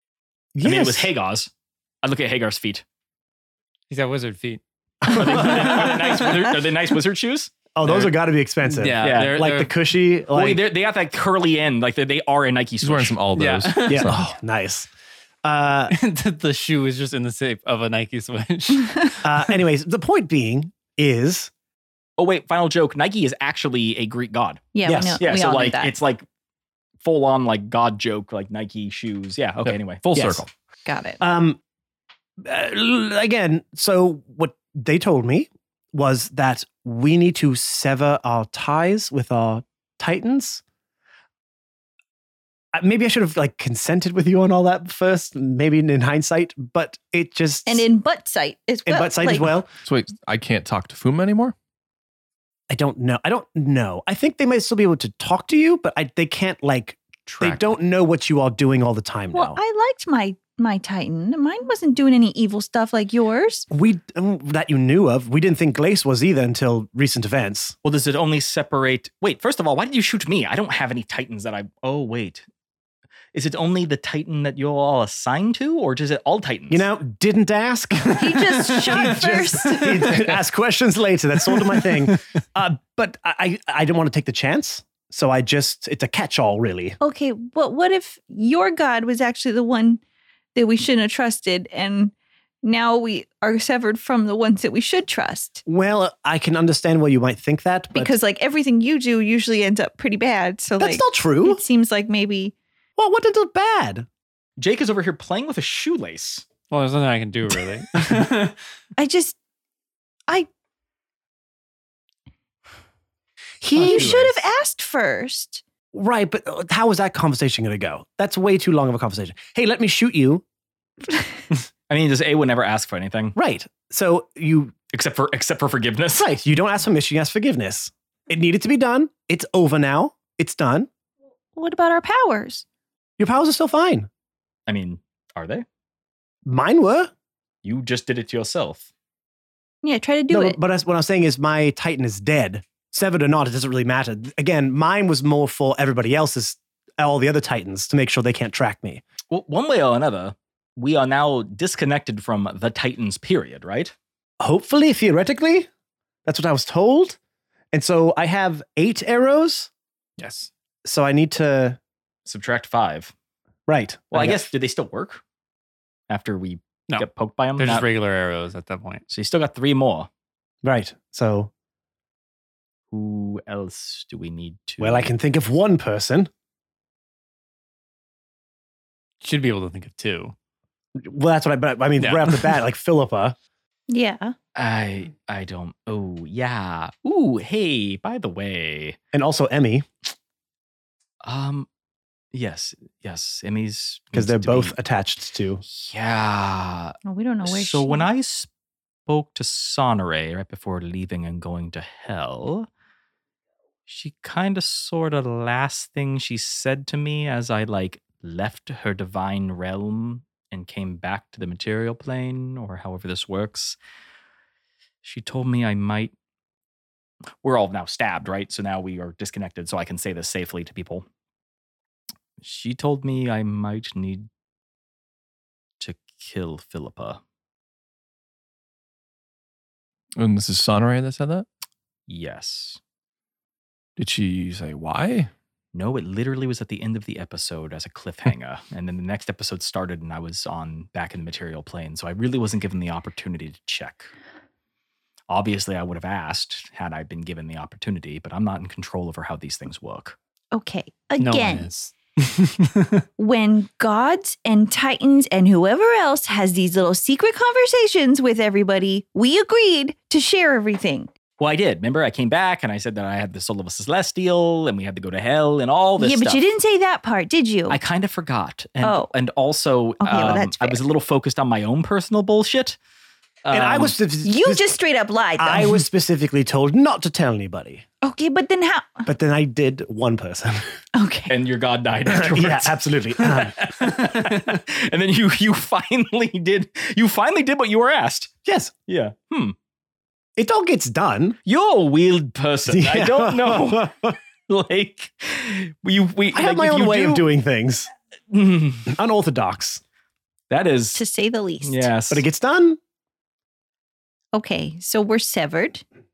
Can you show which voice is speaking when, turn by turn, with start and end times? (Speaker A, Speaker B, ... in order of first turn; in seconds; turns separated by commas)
Speaker A: 0.6-1.1, Speaker B: 0.6-1.5, Speaker B: 2.0-2.8, Speaker C: 3.9-4.6, Speaker A: 5.0-6.1, Speaker B: 5.1-8.1, Speaker C: 5.1-6.1, Speaker A: 7.7-10.6, Speaker C: 8.7-9.7, Speaker B: 9.0-9.4, Speaker B: 10.3-13.2, Speaker D: 12.8-14.3, Speaker C: 13.3-14.2, Speaker A: 13.9-14.9, Speaker A: 15.4-15.9, Speaker C: 15.9-19.3, Speaker A: 19.2-21.5, Speaker B: 22.2-24.6, Speaker E: 24.7-25.9, Speaker A: 24.8-25.2, Speaker B: 25.2-26.2, Speaker B: 27.0-30.4, Speaker D: 29.6-30.4, Speaker A: 30.1-30.4, Speaker E: 30.9-31.2, Speaker A: 31.2-31.6, Speaker A: 32.4-40.6, Speaker A: 42.7-47.9, Speaker E: 47.6-49.5, Speaker A: 48.9-49.7, Speaker D: 49.8-51.5, Speaker A: 52.7-59.6, Speaker D: 57.2-57.7, Speaker E: 59.3-63.7, Speaker A: 63.7-67.7, Speaker B: 67.8-72.4, Speaker B: 73.3-76.9, Speaker A: 76.7-87.0, Speaker E: 78.2-80.2, Speaker E: 87.0-90.0, Speaker E: 90.5-95.6, Speaker A: 95.7-98.2, Speaker E: 97.9-102.5, Speaker A: 100.8-101.6, Speaker A: 103.0-104.0, Speaker B: 104.6-106.5, Speaker C: 106.7-108.5, Speaker E: 109.0-109.3, Speaker A: 113.6-114.4, Speaker E: 113.8-115.6, Speaker A: 115.9-120.4, Speaker B: 121.9-123.3, Speaker A: 123.3-124.7, Speaker B: 124.9-126.3, Speaker A: 126.1-130.9, Speaker E: 131.6-132.6, Speaker A: 133.2-134.1, Speaker B: 134.7-135.6, Speaker A: 136.4-137.1, Speaker B: 137.6-138.8, Speaker E: 139.8-140.6, Speaker A: 140.3-149.0, Speaker B: 149.3-153.9, Speaker A: 154.4-155.7, Speaker A: 156.2-157.2, Speaker A: 157.7-159.7, Speaker C: 160.2-160.5, Speaker A: 160.8-161.8, Speaker B: 162.2-163.1, Speaker A: 163.7-164.5, Speaker B: 164.1-165.2, Speaker B: 166.1-167.8, Speaker C: 166.9-169.0, Speaker B: 169.1-170.1, Speaker A: 170.6-171.5, Speaker B: 172.9-175.1, Speaker A: 174.8-176.3, Speaker C: 179.2-180.3, Speaker A: 181.0-183.3, Speaker C: 182.0-182.5, Speaker E: 183.9-184.3, Speaker B: 184.5-189.0, Speaker A: 189.1-189.8, Speaker B: 191.2-191.7, Speaker B: 192.3-194.7, Speaker A: 194.1-195.6, Speaker B: 195.7-198.5, Speaker E: 197.0-198.1, Speaker B: 199.1-202.7, Speaker B: 203.8-213.8, Speaker B: 215.0-216.1, Speaker B: 217.4-221.0, Speaker B: 222.4-224.3, Speaker B: 225.8-227.2, Speaker D: 230.2-231.4, Speaker B: 232.1-232.8, Speaker D: 234.0-235.3, Speaker B: 235.7-244.1, Speaker B: 245.3-250.2, Speaker E: 250.5-251.7, Speaker C: 251.2-253.0, Speaker E: 253.2-261.1, Speaker B: 261.4-266.4, Speaker E: 266.0-267.8, Speaker B: 267.7-272.8, Speaker E: 268.8-269.1, Speaker E: 270.0-270.8, Speaker B: 273.4-273.9, Speaker A: 273.5-274.7, Speaker E: 274.2-275.8, Speaker A: 275.4-277.8, Speaker E: 278.0-279.1, Speaker A: 279.1-280.7, Speaker E: 280.9-281.3, Speaker B: 281.3-288.3, Speaker A: 282.1-283.7, Speaker C: 283.9-284.4, Speaker A: 288.4-288.7, Speaker B: 288.9-289.5, Speaker A: 290.4-291.4, Speaker B: 291.4-297.2, Speaker A: 292.7-294.1, Speaker A: 296.3-297.9, Speaker B: 298.3-298.9, Speaker A: 298.9-299.8, Speaker B: 300.5-301.0, Speaker E: 300.9-301.9, Speaker B: 301.6-302.2, Speaker A: 302.1-302.8, Speaker E: 304.3-305.8